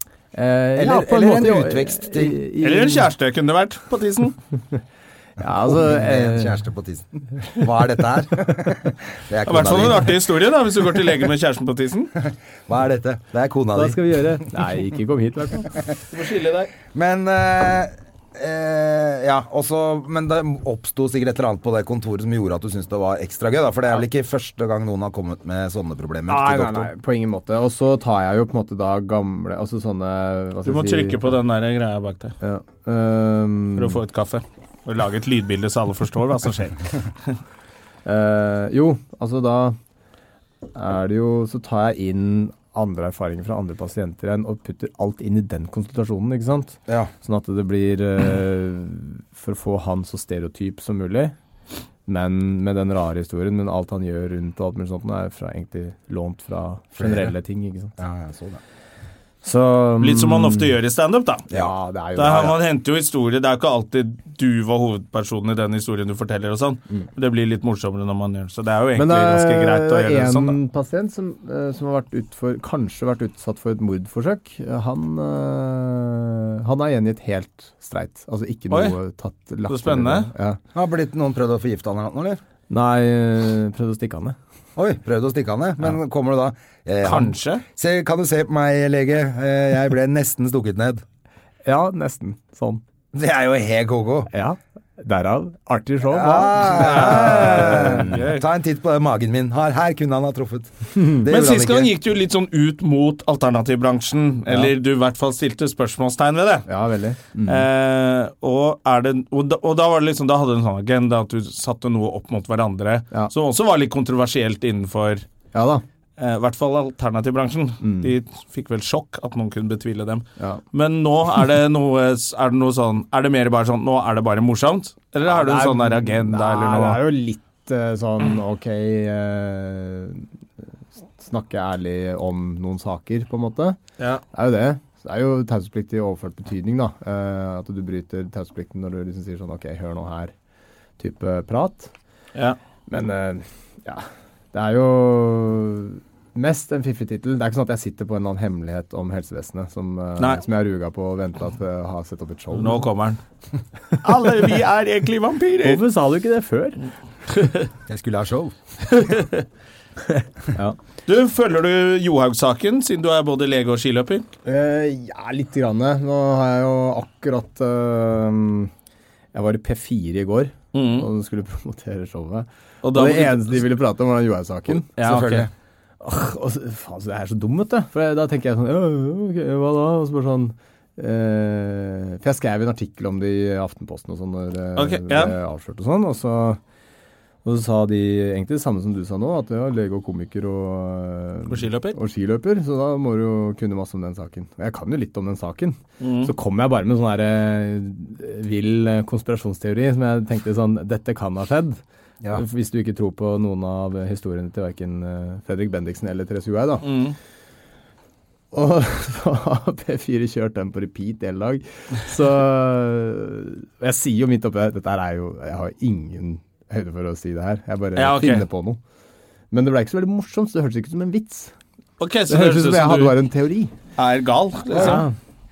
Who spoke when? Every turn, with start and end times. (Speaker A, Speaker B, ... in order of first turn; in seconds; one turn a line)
Speaker A: 0.3-3.1
Speaker B: 0.8-2.4
Speaker C: 2.6-4.4
Speaker A: 5.4-6.6
Speaker B: 5.5-10.1
Speaker C: 9.5-12.1
Speaker B: 12.7-14.3
Speaker A: 13.7-15.7
Speaker C: 16.1-16.7
Speaker B: 16.9-26.9
Speaker A: 26.3-31.4
Speaker C: 30.6-32.4
Speaker A: 32.4-34.0
Speaker C: 33.8-37.4
Speaker A: 38.0-39.8
Speaker A: 40.8-51.4
Speaker B: 46.9-47.1
Speaker A: 52.1-57.9
Speaker B: 57.0-57.4
Speaker B: 58.0-58.6
Speaker A: 59.4-60.8
Speaker C: 60.0-61.5
Speaker A: 61.5-62.6
Speaker C: 62.1-70.6
Speaker A: 69.0-80.6
Speaker C: 78.7-79.0
Speaker C: 79.7-80.3
Speaker B: 80.7-82.4
Speaker A: 82.7-84.4
Speaker B: 84.8-91.0
Speaker C: 87.0-87.6
Speaker A: 91.7-92.8
Speaker B: 93.1-94.3
Speaker A: 94.3-98.1
Speaker B: 96.1-101.9
Speaker C: 96.6-98.5
Speaker A: 101.0-101.2
Speaker C: 101.2-106.7
Speaker A: 106.7-107.7
Speaker C: 107.5-115.2
Speaker A: 115.5-115.8
Speaker C: 116.2-127.0
Speaker A: 117.8-118.1
Speaker A: 125.3-130.2
Speaker A: 131.1-133.8
Speaker A: 134.3-140.3
Speaker A: 141.0-141.9
Speaker A: 142.9-152.9
Speaker C: 152.5-153.2
Speaker C: 154.0-155.8
Speaker A: 155.6-156.9
Speaker B: 157.9-158.5
Speaker C: 158.9-159.4
Speaker A: 160.1-160.8
Speaker C: 161.1-164.3
Speaker A: 164.4-168.7
Speaker A: 169.3-175.1
Speaker C: 170.7-171.1
Speaker C: 172.8-173.6
Speaker C: 174.9-175.5
Speaker B: 175.0-175.5
Speaker A: 176.0-186.6
Speaker C: 184.8-185.4
Speaker A: 187.4-201.8
Speaker C: 191.5-192.0
Speaker C: 196.0-196.3
Speaker A: 202.3-207.1
Speaker C: 206.8-207.2
Speaker A: 208.5-218.8
Speaker C: 217.9-218.5
Speaker A: 219.5-221.5
Speaker C: 222.0-223.2
Speaker A: 222.3-223.7
Speaker C: 224.0-225.1
Speaker B: 224.7-225.1
Speaker A: 224.7-225.1